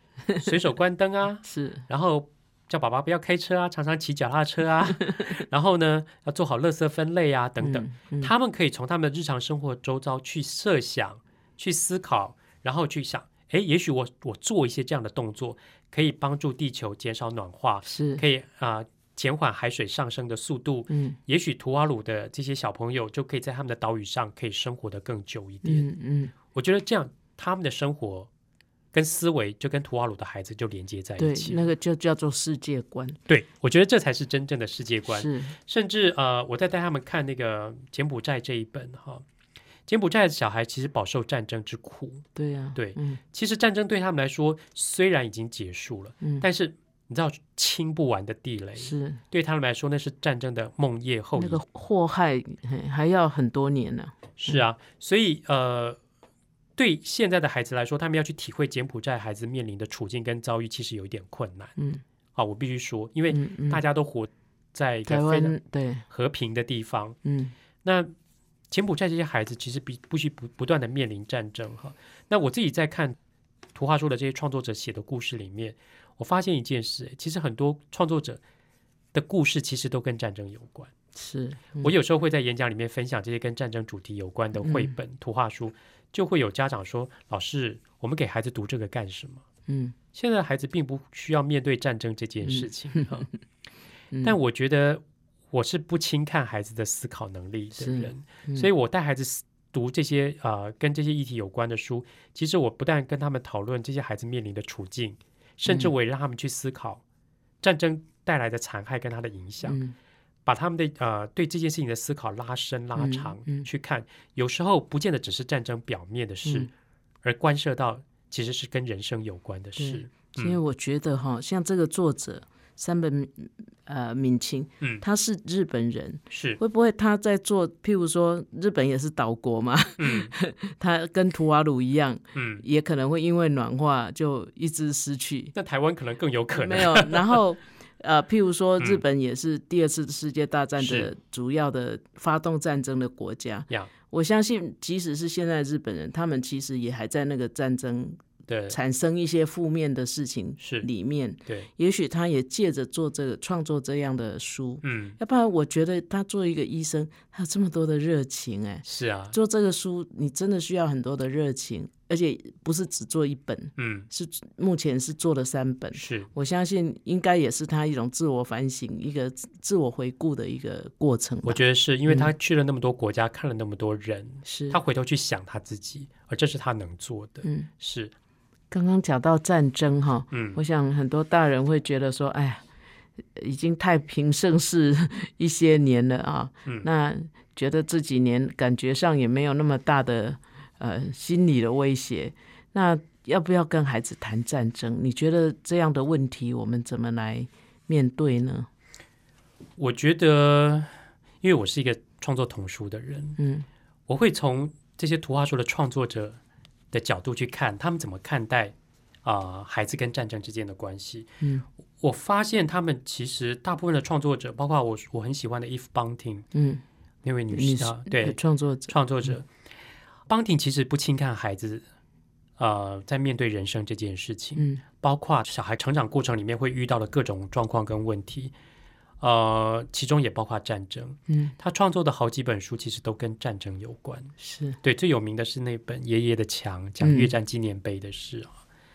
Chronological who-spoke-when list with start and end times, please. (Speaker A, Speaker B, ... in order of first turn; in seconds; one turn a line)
Speaker A: 0.4-25.9
Speaker B: 1.4-1.9
Speaker B: 4.9-5.3
Speaker B: 7.6-8.3
Speaker B: 17.9-18.2
Speaker B: 20.9-21.2
Speaker B: 25.6-26.3
Speaker A: 26.5-28.3
Speaker A: 28.9-31.7
Speaker B: 31.2-33.2
Speaker A: 33.3-39.2
Speaker B: 35.1-35.6
Speaker A: 39.9-51.6
Speaker B: 42.4-43.2
Speaker B: 48.8-49.2
Speaker B: 51.4-54.6
Speaker A: 54.4-56.0
Speaker A: 56.8-61.8
Speaker B: 61.8-62.0
Speaker A: 62.4-65.5
Speaker B: 63.3-63.8
Speaker B: 65.1-66.0
Speaker A: 66.1-67.2
Speaker B: 67.2-67.5
Speaker A: 67.8-68.1
Speaker A: 68.7-73.2
Speaker A: 73.8-78.4
Speaker A: 79.1-80.9
Speaker B: 81.1-81.9
Speaker A: 81.8-89.4
Speaker B: 84.6-84.9
Speaker B: 89.7-89.9
Speaker A: 90.1-93.3
Speaker B: 92.4-93.3
Speaker A: 94.2-107.0
Speaker B: 97.8-98.7
Speaker B: 105.7-105.9
Speaker A: 107.6-109.8
Speaker B: 109.6-109.9
Speaker A: 110.5-116.7
Speaker B: 113.0-113.7
Speaker B: 116.4-116.7
Speaker A: 117.2-120.6
Speaker B: 119.8-135.5
Speaker A: 126.3-126.6
Speaker A: 130.0-130.3
Speaker A: 132.3-132.6
Speaker A: 135.6-137.4
Speaker B: 136.5-172.3
Speaker A: 140.8-141.1
Speaker A: 148.5-148.8
Speaker A: 150.6-150.9
Speaker A: 154.8-155.2
Speaker A: 158.8-159.4
Speaker A: 163.8-164.1
Speaker A: 165.9-166.3
Speaker A: 171.4-178.1
Speaker B: 174.4-174.8
Speaker B: 177.4-177.7
Speaker B: 178.7-182.6
Speaker A: 180.3-180.6
Speaker B: 183.3-198.7
Speaker A: 199.8-203.4
Speaker B: 203.4-203.7
Speaker A: 204.1-206.4
Speaker A: 206.9-211.3
Speaker A: 212.0-216.5
Speaker B: 216.5-216.8
Speaker A: 217.2-219.5
Speaker B: 217.5-219.3
Speaker A: 220.3-221.8
Speaker A: 222.6-228.5
Speaker B: 224.6-224.8
Speaker A: 229.2-238.6
Speaker B: 231.3-231.5
Speaker B: 234.4-234.8
Speaker B: 237.0-237.3